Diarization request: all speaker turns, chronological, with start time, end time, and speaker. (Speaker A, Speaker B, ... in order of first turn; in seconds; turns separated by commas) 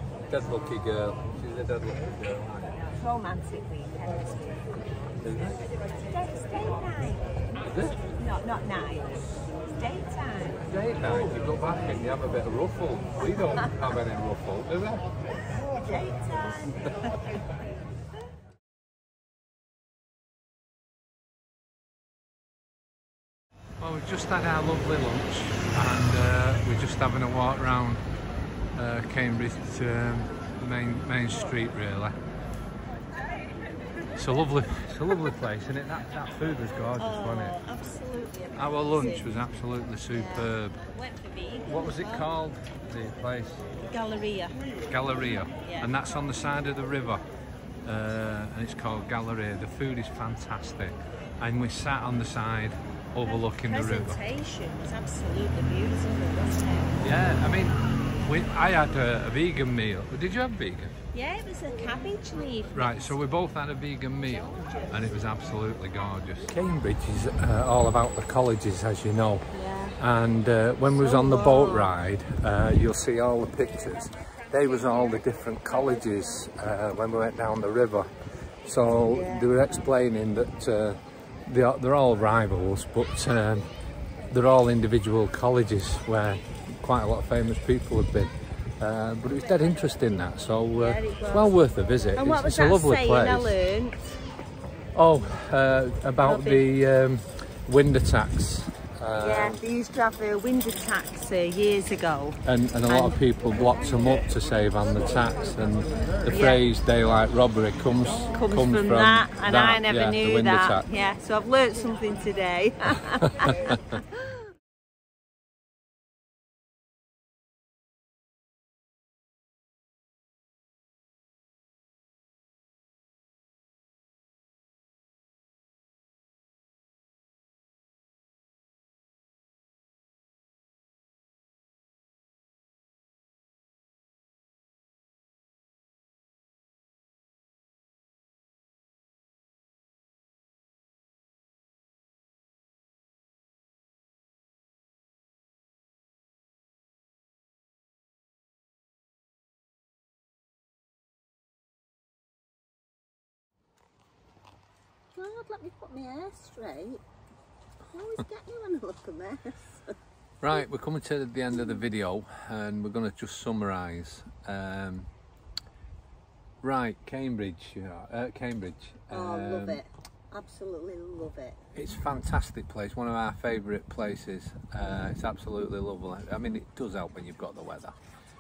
Speaker A: 0.3-2.8, Speaker B: 2.7-4.9, Speaker A: 5.2-5.6, Speaker B: 5.8-10.6, Speaker A: 7.7-8.0, Speaker A: 10.6-15.1, Speaker B: 15.6-17.1, Speaker A: 23.8-28.0, Speaker A: 28.7-32.1, Speaker A: 34.1-37.6, Speaker B: 37.0-39.3, Speaker A: 38.5-40.8, Speaker B: 40.1-42.3, Speaker A: 41.7-43.6, Speaker B: 43.8-44.6, Speaker A: 44.9-47.2, Speaker B: 45.6-45.9, Speaker A: 47.8-54.2, Speaker B: 53.2-57.0, Speaker A: 57.0-60.9, Speaker B: 61.1-63.2, Speaker A: 62.7-69.5, Speaker B: 64.2-65.2, Speaker B: 69.5-70.0, Speaker A: 70.0-78.1, Speaker B: 70.8-71.9, Speaker B: 74.8-75.2, Speaker A: 78.6-83.7, Speaker B: 79.1-79.8, Speaker A: 84.3-93.5, Speaker B: 90.8-91.6, Speaker B: 92.1-94.1, Speaker A: 94.9-99.6, Speaker B: 96.2-96.7, Speaker B: 99.2-103.2, Speaker A: 102.4-110.8, Speaker B: 106.3-106.6, Speaker B: 108.3-114.0, Speaker B: 155.1-157.0, Speaker B: 157.9-159.9, Speaker A: 160.4-165.1, Speaker A: 166.6-169.8, Speaker B: 169.1-171.7, Speaker A: 171.7-177.9